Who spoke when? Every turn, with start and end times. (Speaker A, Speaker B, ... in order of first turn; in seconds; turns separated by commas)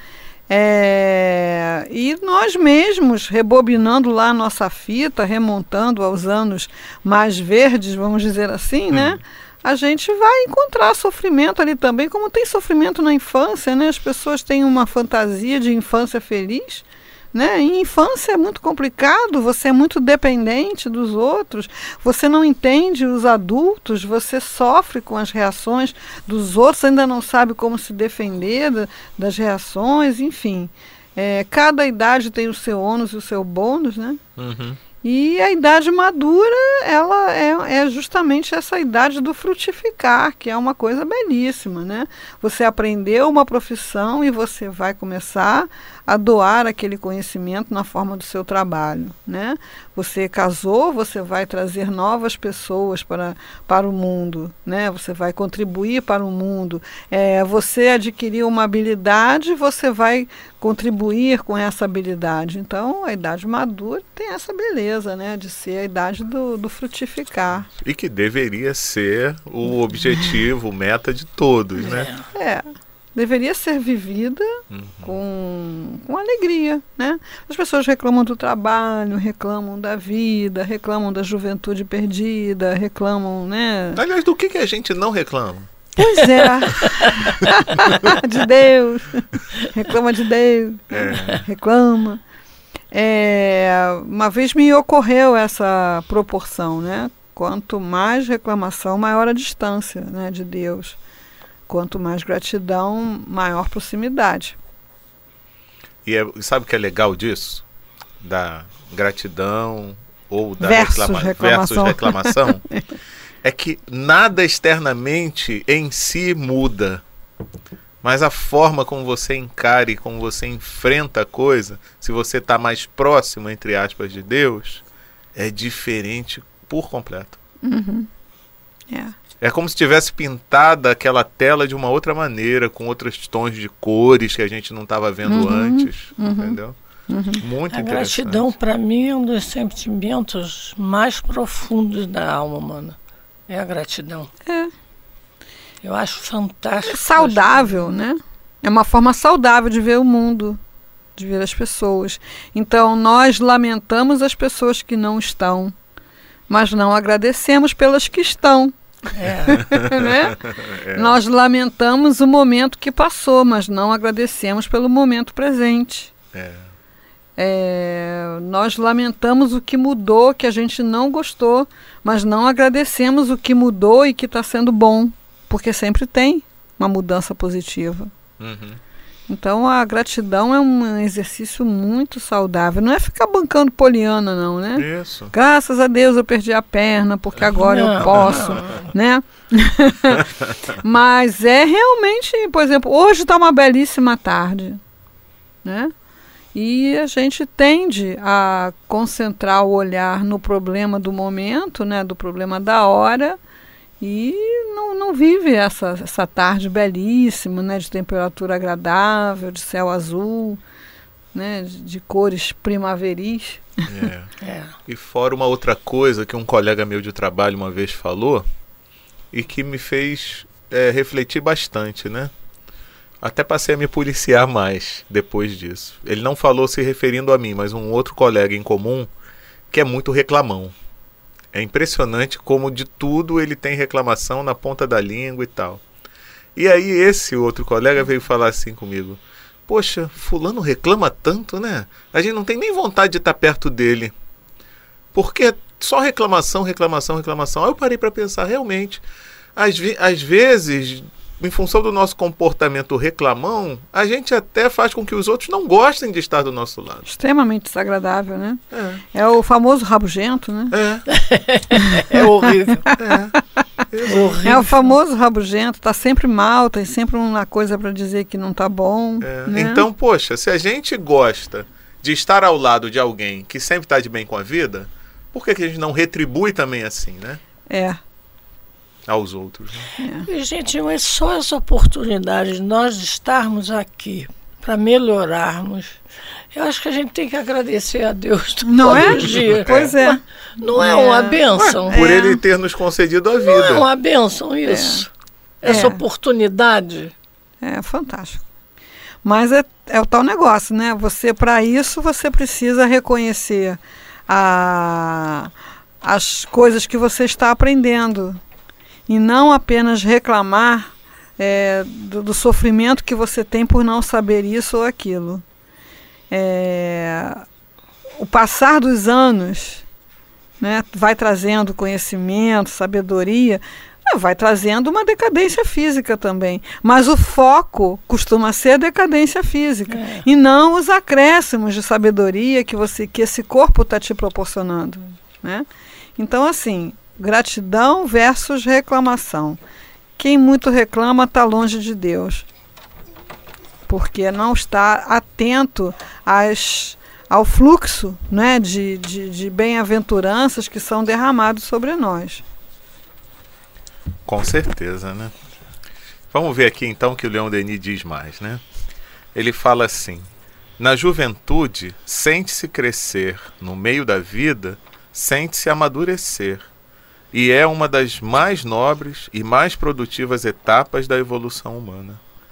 Speaker A: 0.5-34.2, Speaker B: 8.9-9.2, Speaker B: 34.4-34.8, Speaker A: 35.0-67.7, Speaker B: 67.7-72.1, Speaker C: 71.8-72.2, Speaker A: 72.3-84.0, Speaker B: 74.7-75.2, Speaker B: 83.9-85.7, Speaker A: 86.0-92.2, Speaker B: 90.9-91.4, Speaker A: 92.9-101.0, Speaker A: 101.7-104.5, Speaker B: 106.0-107.6, Speaker B: 108.2-112.6, Speaker A: 110.6-112.8, Speaker B: 113.4-117.0, Speaker B: 118.0-124.8, Speaker B: 125.3-127.4, Speaker A: 127.6-128.1, Speaker B: 129.4-136.8, Speaker A: 135.3-136.6, Speaker A: 137.1-137.4, Speaker B: 137.4-138.5, Speaker C: 137.7-142.9, Speaker C: 143.5-144.3, Speaker A: 144.4-144.7, Speaker C: 145.8-147.9, Speaker A: 146.8-150.6, Speaker A: 151.2-155.7, Speaker A: 156.5-158.7, Speaker C: 159.1-159.6, Speaker A: 159.5-160.4, Speaker B: 159.7-161.2, Speaker A: 160.9-166.1, Speaker B: 166.3-166.6, Speaker A: 167.4-178.1, Speaker B: 178.4-178.8, Speaker A: 179.3-190.3, Speaker B: 184.8-185.3, Speaker C: 187.5-188.8, Speaker B: 188.0-188.7, Speaker A: 190.8-194.8, Speaker A: 195.6-195.9, Speaker A: 196.5-203.4, Speaker A: 204.0-210.6, Speaker A: 211.3-213.9, Speaker B: 213.9-214.3, Speaker C: 214.4-214.7, Speaker B: 214.8-218.5, Speaker B: 219.3-222.3, Speaker B: 223.2-229.1, Speaker B: 229.7-230.7, Speaker B: 231.5-235.8, Speaker B: 236.6-244.1, Speaker B: 245.1-249.0, Speaker B: 249.6-257.1, Speaker A: 257.1-258.6, Speaker B: 258.7-259.0, Speaker A: 259.1-260.8, Speaker B: 260.7-261.0, Speaker C: 261.1-262.9, Speaker A: 261.9-262.2, Speaker B: 262.9-263.4, Speaker B: 263.9-264.6, Speaker C: 264.0-264.9, Speaker A: 264.4-269.9, Speaker B: 269.2-277.4, Speaker A: 277.7-278.0, Speaker B: 279.1-279.9, Speaker A: 280.0-280.3, Speaker C: 280.3-286.0, Speaker C: 286.5-292.0, Speaker A: 288.6-292.4, Speaker B: 288.9-289.9, Speaker B: 291.9-293.9, Speaker C: 293.4-295.1, Speaker A: 294.6-295.0, Speaker C: 295.6-297.1, Speaker A: 295.6-296.0, Speaker A: 297.6-298.5, Speaker A: 299.2-305.5, Speaker A: 306.0-308.4, Speaker A: 309.1-315.4, Speaker A: 316.3-317.4, Speaker A: 318.2-319.8, Speaker A: 320.6-335.6, Speaker C: 329.9-330.2, Speaker A: 336.2-339.6, Speaker A: 340.2-342.5, Speaker A: 343.9-352.4, Speaker B: 354.2-355.3, Speaker B: 356.3-358.6, Speaker B: 359.3-360.3, Speaker B: 360.8-366.7, Speaker B: 367.3-372.2